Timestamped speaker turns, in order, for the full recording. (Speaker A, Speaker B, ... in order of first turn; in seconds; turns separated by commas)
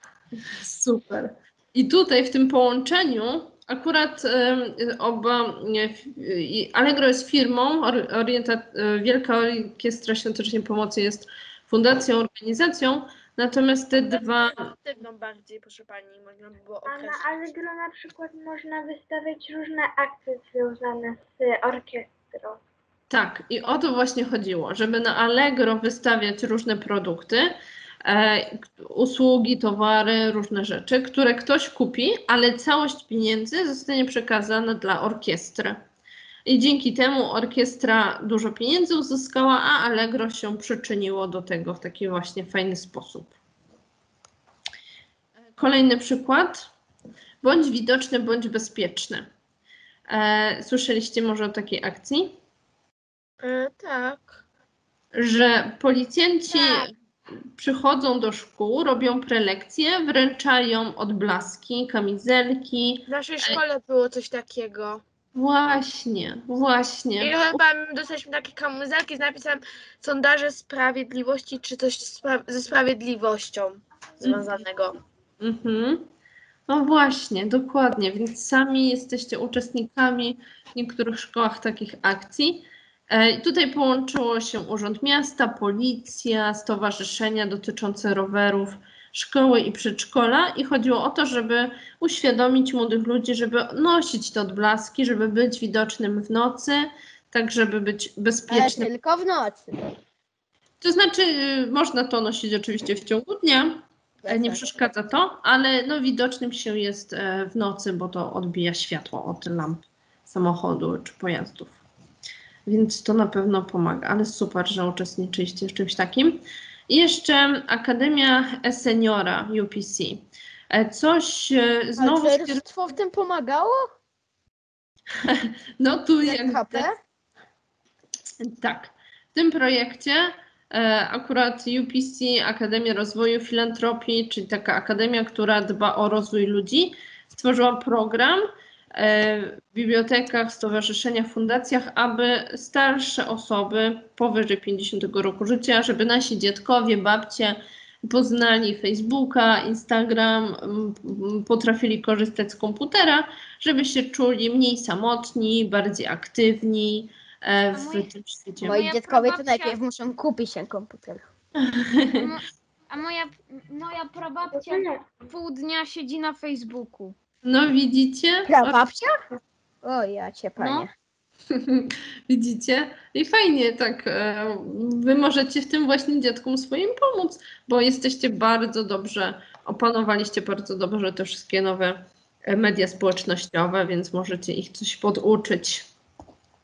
Speaker A: 0.5-14.7, Speaker B: 14.1-17.5, Speaker C: 16.8-22.6, Speaker A: 23.1-35.8, Speaker A: 36.5-43.3, Speaker A: 45.6-46.7, Speaker A: 47.4-49.3, Speaker A: 50.1-52.4, Speaker B: 53.4-54.4, Speaker A: 55.1-56.9, Speaker B: 56.5-56.9, Speaker A: 57.5-63.6, Speaker B: 63.1-65.0, Speaker A: 65.3-67.6, Speaker B: 67.2-75.0, Speaker A: 75.4-76.1, Speaker A: 76.7-98.9, Speaker D: 98.5-99.7, Speaker A: 100.8-111.8, Speaker D: 104.2-104.7, Speaker A: 112.7-122.6, Speaker D: 122.0-123.9, Speaker A: 125.2-126.9, Speaker D: 126.2-127.0, Speaker A: 128.4-158.8, Speaker E: 157.7-159.8, Speaker D: 158.6-161.2, Speaker A: 161.6-162.3, Speaker E: 162.2-167.2, Speaker C: 164.5-165.0, Speaker A: 167.4-168.8, Speaker D: 168.5-169.1, Speaker D: 169.8-170.9, Speaker E: 170.6-170.9, Speaker A: 171.5-185.9